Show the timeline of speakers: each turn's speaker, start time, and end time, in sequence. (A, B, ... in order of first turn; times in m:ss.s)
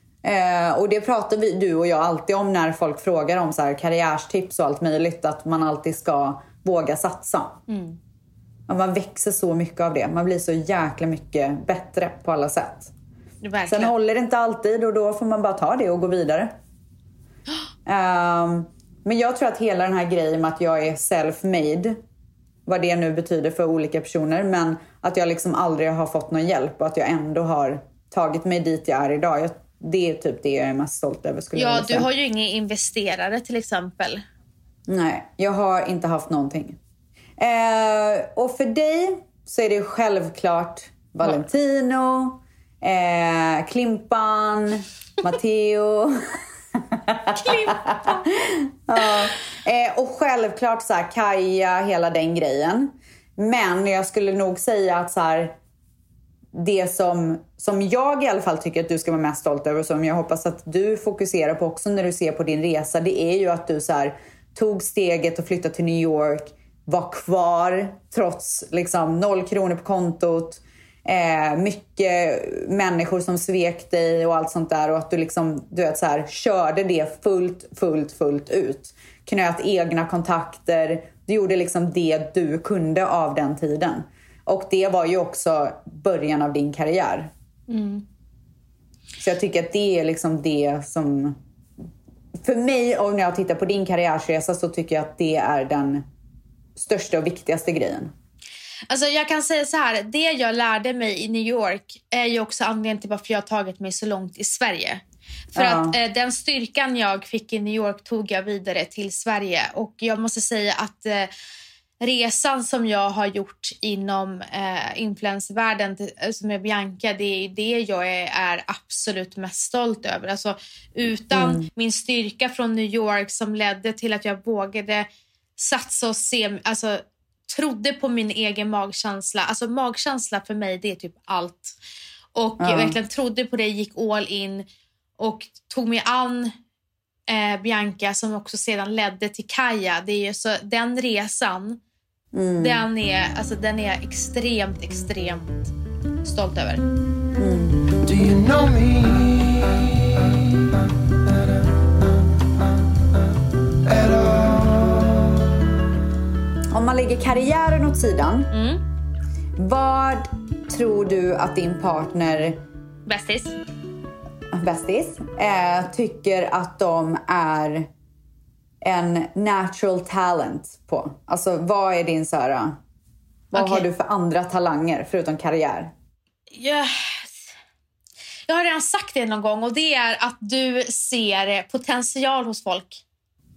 0:00.2-0:07.6 A
0:07.7-0:08.0 B
0:08.7-0:12.9 A
0:13.4-0:13.9 B
0:13.6-0:16.5 A
0:17.8-0:22.0 A
0:22.6-0:32.1 A
0:31.5-0:34.2 B
0:34.9-0:36.8 A
0:37.4-0:46.2 A
0:46.8-0:55.6 A
0:47.4-0:48.3 B
0:56.5-1:27.3 A
1:27.7-1:28.0 B
1:29.2-1:31.4 A
1:32.4-1:36.0 A
1:36.8-1:38.1 A
1:38.9-1:45.0 B
1:45.5-1:46.0 A
1:45.5-1:51.3 B
1:52.0-2:11.8 B
2:01.3-2:01.7 A
2:12.3-2:14.6 B
2:12.6-2:13.0 A
2:15.2-2:16.5 B
2:17.3-2:21.8 B
2:22.3-2:22.8 A
2:22.6-2:25.7 B
2:26.2-2:26.8 B
2:27.4-2:27.9 A
2:36.7-2:38.5 A
2:38.5-2:38.8 B
2:39.6-2:42.6 A
2:43.1-2:43.5 B
2:44.5-2:47.9 A
2:48.8-2:52.8 A
2:53.5-2:55.9 A
2:53.5-2:53.9 B
2:56.5-2:57.5 B
2:58.5-3:03.0 B